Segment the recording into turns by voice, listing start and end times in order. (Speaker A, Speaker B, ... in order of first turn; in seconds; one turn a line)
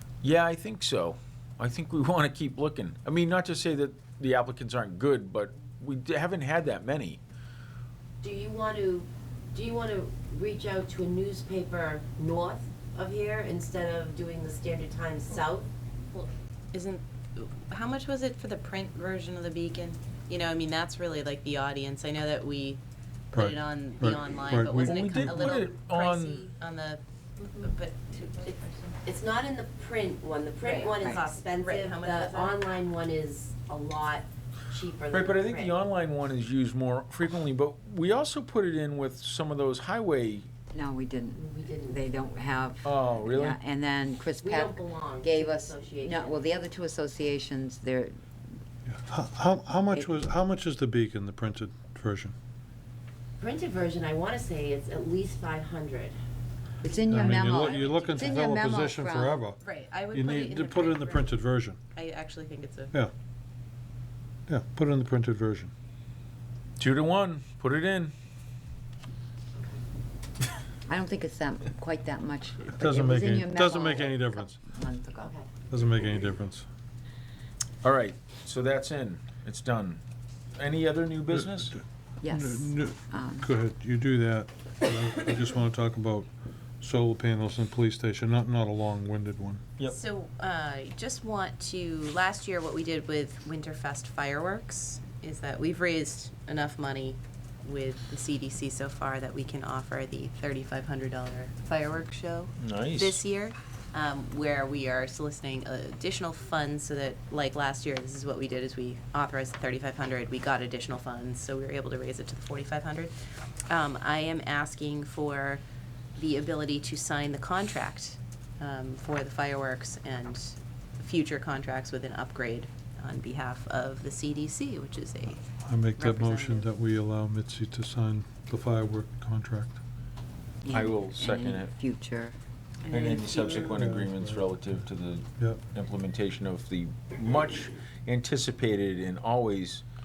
Speaker A: 0.2-7.2
Speaker B: 8.2-15.7
Speaker C: 16.1-22.8
Speaker C: 23.3-28.9
Speaker D: 23.3-25.5
Speaker A: 24.8-26.5
Speaker B: 29.0-35.8
Speaker C: 30.6-32.6
Speaker A: 35.1-40.5
Speaker E: 40.7-48.2
Speaker B: 41.3-42.0
Speaker A: 42.8-43.6
Speaker B: 44.4-46.4
Speaker D: 48.9-52.3
Speaker B: 53.4-56.1
Speaker E: 56.8-59.4
Speaker D: 57.1-59.6
Speaker C: 57.5-58.4
Speaker C: 59.6-61.4
Speaker D: 60.1-61.8
Speaker C: 61.9-62.9
Speaker D: 64.5-65.7
Speaker A: 66.8-68.1
Speaker E: 70.9-75.3
Speaker D: 72.7-74.6
Speaker B: 75.2-75.5
Speaker D: 75.7-76.7
Speaker A: 77.8-80.0
Speaker A: 80.5-81.7
Speaker D: 81.4-86.3
Speaker E: 82.2-83.5
Speaker D: 86.8-89.6
Speaker C: 89.8-113.1
Speaker A: 102.6-103.2
Speaker C: 113.7-115.6
Speaker C: 116.2-125.4
Speaker D: 125.6-129.8
Speaker C: 126.0-126.7
Speaker E: 130.6-132.3
Speaker A: 130.7-131.7
Speaker C: 132.9-133.2
Speaker A: 132.9-139.8
Speaker D: 133.3-134.6